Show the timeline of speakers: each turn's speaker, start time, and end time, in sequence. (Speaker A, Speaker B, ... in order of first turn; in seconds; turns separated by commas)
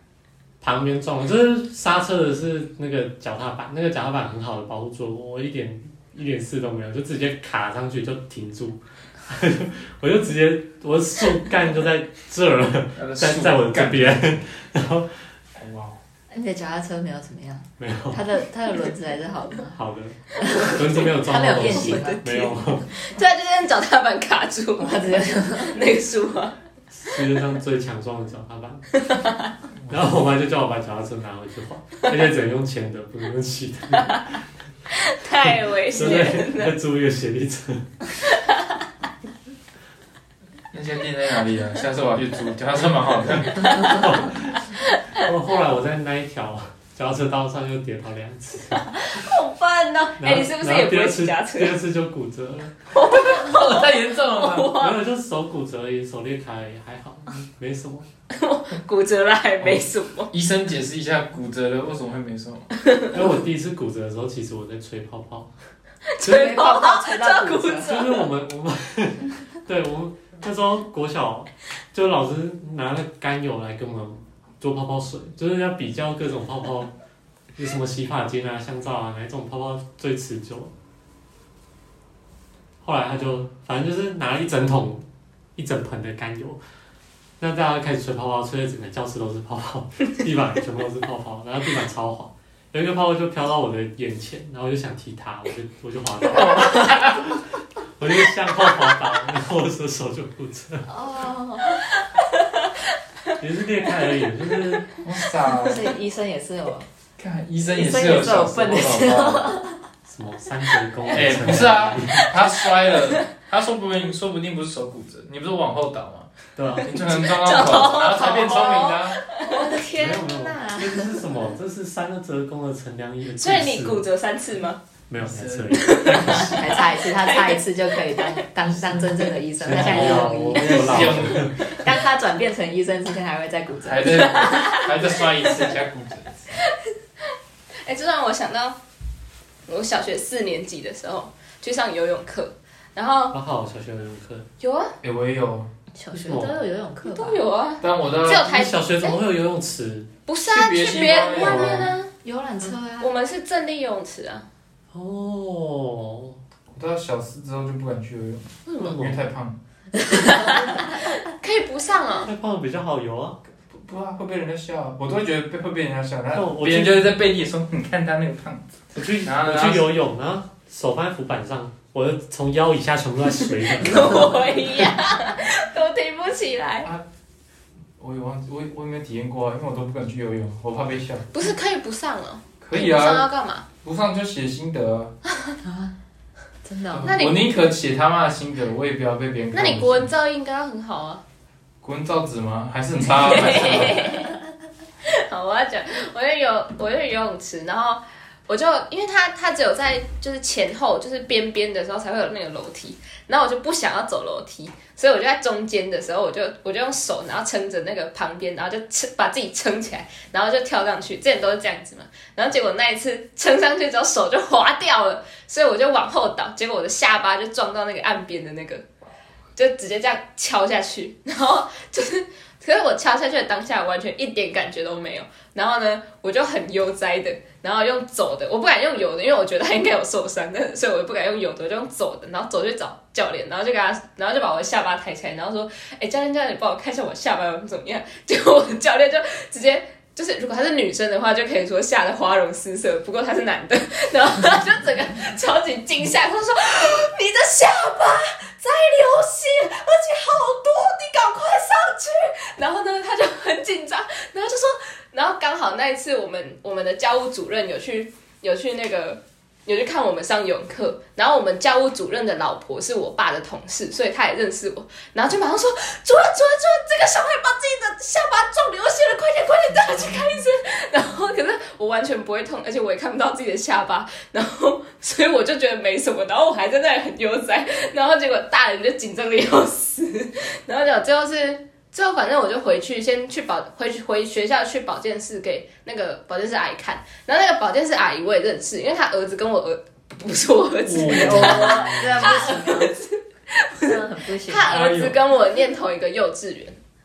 Speaker A: 0.6-15.1, Speaker B: 13.0-14.5, Speaker B: 15.5-16.0, Speaker C: 16.3-19.8, Speaker A: 17.8-18.2, Speaker A: 19.7-22.9, Speaker C: 20.4-22.6, Speaker D: 21.6-22.4, Speaker D: 22.9-26.6, Speaker C: 24.8-25.8, Speaker A: 26.9-28.9, Speaker D: 29.1-29.3, Speaker B: 29.8-30.2, Speaker A: 29.9-34.3, Speaker D: 34.9-36.7, Speaker A: 35.9-37.9, Speaker B: 40.7-43.6, Speaker D: 43.6-44.0, Speaker A: 43.9-44.6, Speaker D: 44.9-45.2, Speaker A: 45.2-49.2, Speaker D: 49.1-51.8, Speaker A: 50.2-52.8, Speaker D: 52.9-55.0, Speaker B: 53.1-54.8, Speaker A: 54.7-58.1, Speaker D: 58.3-60.3, Speaker B: 60.3-62.7, Speaker A: 63.1-65.5, Speaker D: 66.1-68.3, Speaker C: 66.2-67.9, Speaker A: 67.8-76.9, Speaker A: 77.6-80.7, Speaker A: 82.8-86.6, Speaker A: 87.4-97.4, Speaker B: 96.3-97.3, Speaker A: 98.0-100.9, Speaker C: 100.9-101.8, Speaker A: 103.4-105.0, Speaker B: 105.0-105.9, Speaker C: 105.5-106.9, Speaker B: 107.2-109.6, Speaker C: 107.7-109.8, Speaker A: 110.1-112.3, Speaker B: 111.1-119.2, Speaker D: 112.3-113.2, Speaker A: 116.6-117.0, Speaker D: 116.9-119.7, Speaker C: 119.4-121.3, Speaker A: 119.9-124.0, Speaker D: 123.4-124.8, Speaker A: 125.1-126.7, Speaker B: 125.2-125.9, Speaker D: 125.7-127.6, Speaker C: 126.3-134.3, Speaker B: 129.6-131.7, Speaker A: 129.6-131.8, Speaker B: 133.8-136.5, Speaker D: 134.1-135.7, Speaker D: 137.8-138.8, Speaker D: 139.7-143.3, Speaker A: 143.3-144.5, Speaker D: 144.6-144.9, Speaker B: 145.0-145.7, Speaker C: 145.9-147.4, Speaker A: 146.1-146.6, Speaker D: 147.0-149.2, Speaker B: 147.8-148.5, Speaker A: 148.4-150.1, Speaker D: 150.3-152.1, Speaker B: 150.5-151.9, Speaker A: 151.2-151.9, Speaker C: 152.2-153.1, Speaker D: 153.0-154.5, Speaker A: 154.9-156.4, Speaker B: 156.7-159.6, Speaker D: 158.7-159.0, Speaker A: 158.8-159.2, Speaker C: 160.1-160.9, Speaker D: 160.2-162.3, Speaker A: 162.2-163.4, Speaker B: 163.7-169.9, Speaker A: 166.3-167.1, Speaker A: 168.9-174.3, Speaker D: 173.8-176.9, Speaker B: 178.0-181.3, Speaker D: 181.3-183.7, Speaker B: 182.6-183.3, Speaker B: 183.8-185.1, Speaker C: 185.6-185.9, Speaker C: 186.6-187.2, Speaker B: 186.9-190.1, Speaker D: 187.0-187.5, Speaker D: 189.5-191.2, Speaker B: 191.8-194.1, Speaker D: 193.1-194.4, Speaker D: 195.0-218.8, Speaker D: 219.6-296.8, Speaker A: 290.9-292.3, Speaker C: 290.9-292.9, Speaker B: 290.9-291.8, Speaker C: 293.8-294.8, Speaker B: 294.6-295.2